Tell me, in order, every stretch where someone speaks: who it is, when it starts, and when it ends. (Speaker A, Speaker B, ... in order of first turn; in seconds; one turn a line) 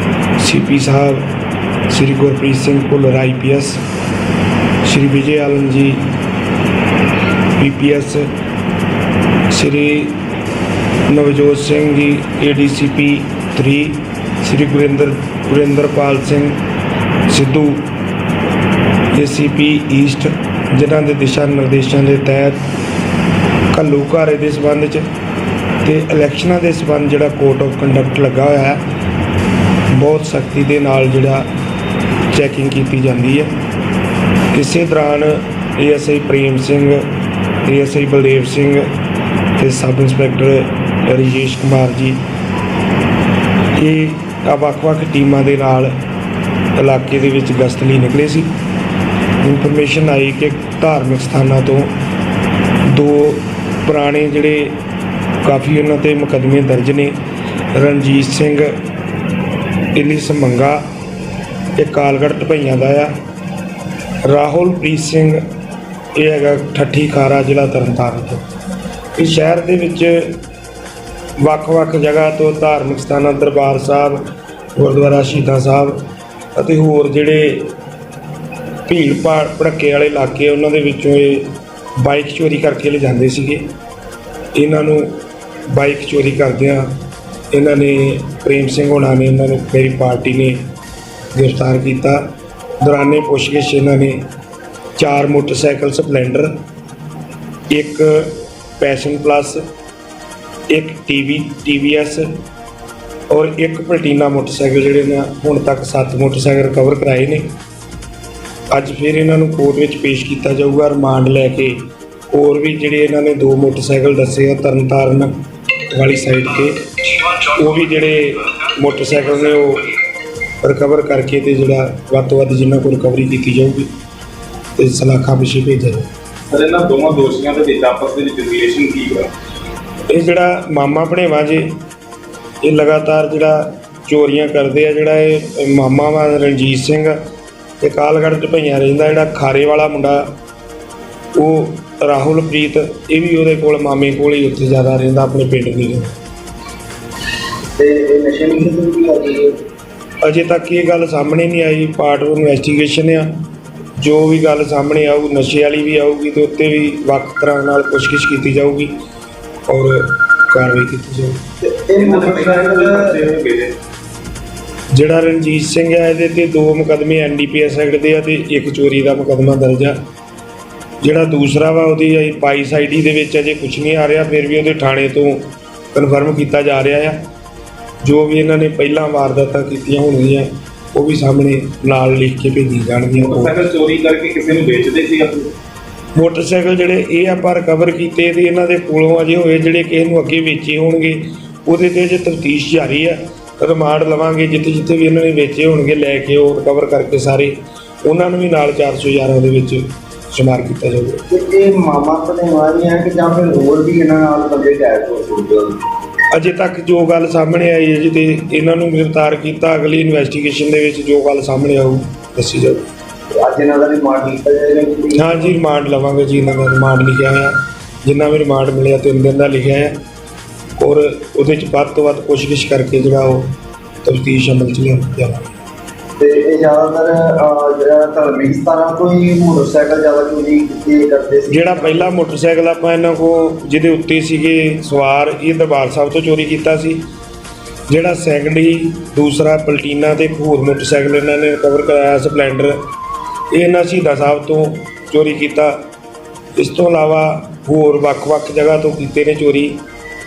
Speaker A: 0.4-1.3
Speaker A: 1.9-3.8
Speaker A: 4.8-6.1
Speaker A: 7.6-8.3
Speaker A: 9.5-10.2
Speaker A: 11.1-16.6
Speaker A: 17.3-17.9
Speaker A: 19.1-22.6
Speaker A: 23.7-25.1
Speaker A: 25.8-28.8
Speaker A: 29.9-31.5
Speaker A: 32.3-33.5
Speaker A: 34.5-37.1
Speaker A: 37.6-38.9
Speaker A: 39.6-42.2
Speaker A: 43.8-45.9
Speaker A: 46.8-48.5
Speaker A: 49.4-52.0
Speaker A: 52.9-54.8
Speaker A: 55.4-57.2
Speaker A: 57.7-58.8
Speaker A: 59.9-60.8
Speaker A: 61.8-63.1
Speaker A: 64.2-65.5
Speaker A: 66.1-68.4
Speaker A: 69.2-70.4
Speaker A: 71.4-77.7
Speaker A: 78.8-83.7
Speaker A: 84.5-87.0
Speaker A: 87.5-90.6
Speaker A: 91.3-94.2
Speaker A: 95.0-96.6
Speaker A: 97.7-99.6
Speaker A: 100.7-102.3
Speaker A: 103.3-107.5
Speaker A: 108.7-115.3
Speaker A: 115.9-119.9
Speaker A: 120.6-123.9
Speaker A: 124.8-126.1
Speaker B: 126.5-129.3
Speaker A: 130.1-131.8
Speaker A: 132.6-137.2
Speaker A: 137.8-140.3
Speaker A: 141.3-146.2
Speaker C: 147.8-149.6
Speaker A: 150.2-153.3
Speaker A: 154.0-158.9
Speaker A: 159.7-161.4
Speaker C: 161.6-163.2
Speaker B: 162.0-163.7
Speaker A: 164.9-170.0
Speaker A: 171.0-177.2
Speaker A: 178.0-183.6
Speaker B: 183.2-185.5
Speaker A: 186.1-201.2
Speaker C: 201.3-205.8
Speaker A: 206.3-212.9
Speaker C: 213.4-215.5
Speaker A: 215.1-220.0
Speaker A: 220.8-223.5
Speaker A: 224.0-225.5
Speaker C: 226.2-232.2
Speaker A: 231.5-237.0
Speaker A: 237.9-242.8
Speaker A: 243.5-245.9
Speaker A: 246.5-249.8